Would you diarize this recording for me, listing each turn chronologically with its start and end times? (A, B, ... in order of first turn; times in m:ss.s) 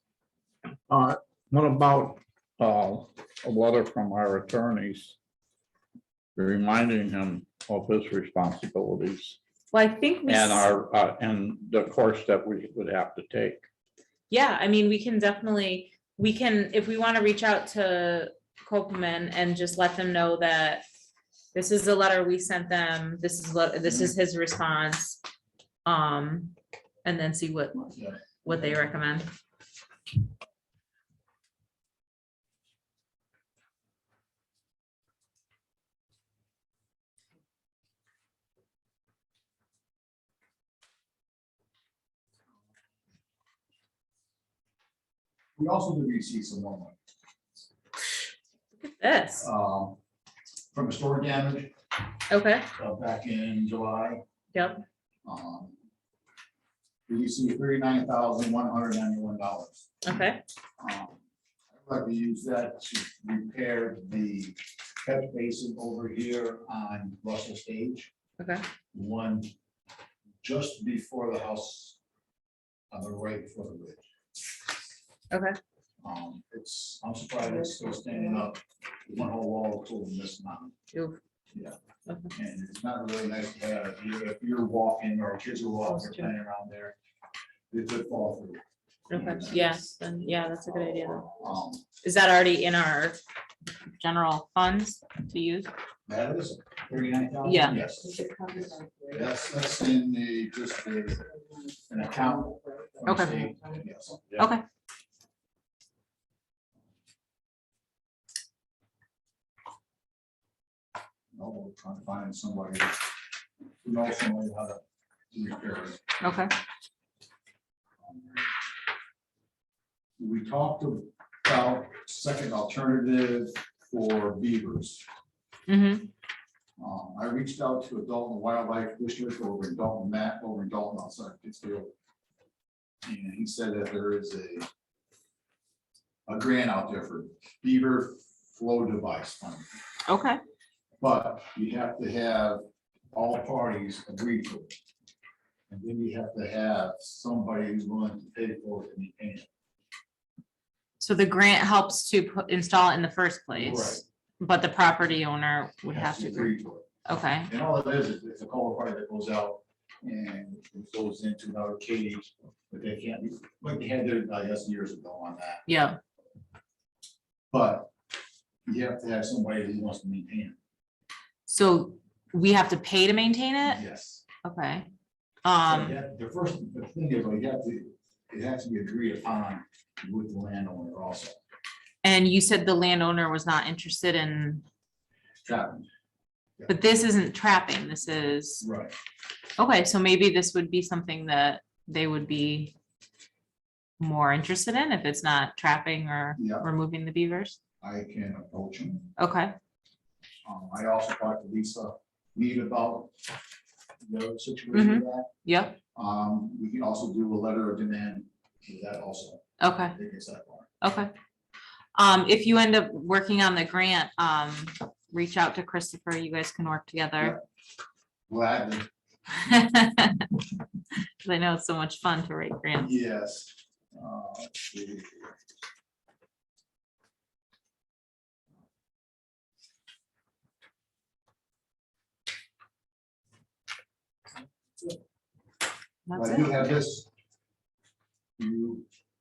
0:00.9-0:05.2 A
0:06.4-0:09.4 A
0:09.7-0:10.6 B
0:10.3-0:13.6 A
0:14.3-0:20.8 B
0:21.5-0:25.2 B
0:25.9-0:26.5 B
0:27.0-0:29.3 B
0:27.9-0:28.6 C
0:45.6-0:47.0 C
0:48.8-0:49.5 B
0:49.4-0:50.0 C
0:50.7-0:51.7 C
0:52.3-0:52.7 B
0:52.8-0:54.2 C
0:54.5-0:54.8 B
0:55.2-0:55.7 C
0:57.1-1:00.3 C
1:00.0-1:00.4 B
1:00.8-1:01.2 C
1:01.8-1:08.1 C
1:08.4-1:08.6 B
1:08.9-1:09.5 C
1:10.4-1:12.0 C
1:12.9-1:14.0 C
1:15.3-1:15.6 B
1:16.0-1:20.7 C
1:20.9-1:21.2 B
1:22.3-1:27.0 C
1:25.9-1:26.3 B
1:27.7-1:29.9 C
1:29.1-1:31.3 B
1:30.6-1:31.8 C
1:32.0-1:33.2 B
1:34.0-1:35.7 B
1:36.1-1:41.2 C
1:37.4-1:37.8 B
1:41.8-1:44.4 C
1:43.1-1:43.4 B
1:44.4-1:44.6 B
1:51.3-1:53.1 C
1:53.8-1:54.8 C
1:55.3-1:56.0 C
1:56.2-1:56.5 B
1:58.0-1:58.4 C
2:00.2-2:05.0 C
2:05.7-2:06.1 B
2:06.8-2:11.9 C
2:13.0-2:14.7 C
2:16.3-2:19.7 C
2:20.1-2:20.4 B
2:21.0-2:22.6 C
2:23.1-2:24.7 C
2:25.7-2:29.5 C
2:31.0-2:36.5 B
2:33.6-2:34.0 C
2:35.9-2:36.9 C
2:37.0-2:37.5 B
2:37.5-2:45.6 C
2:45.7-2:46.0 B
2:47.5-2:47.9 C
2:48.7-2:50.6 C
2:51.5-2:53.8 B
2:53.6-2:54.2 C
2:54.4-2:54.9 B
2:55.4-2:55.9 B
2:55.7-3:01.4 C
3:02.0-3:04.6 B
3:05.4-3:05.9 C
3:06.7-3:08.6 B
3:08.6-3:08.9 C
3:09.6-3:12.7 B
3:14.0-3:17.6 B
3:16.4-3:16.6 C
3:17.8-3:19.1 C
3:19.2-3:19.6 B
3:20.4-3:23.1 C
3:24.0-3:25.3 C
3:24.7-3:25.8 B
3:25.9-3:30.7 C
3:29.6-3:30.0 B
3:30.8-3:31.1 B
3:32.0-3:37.4 B
3:38.3-3:38.9 C
3:39.4-3:40.3 B
3:41.2-3:42.9 B
3:42.8-3:45.3 C
3:56.1-3:56.7 B
3:56.2-3:57.1 C
3:58.4-3:58.9 C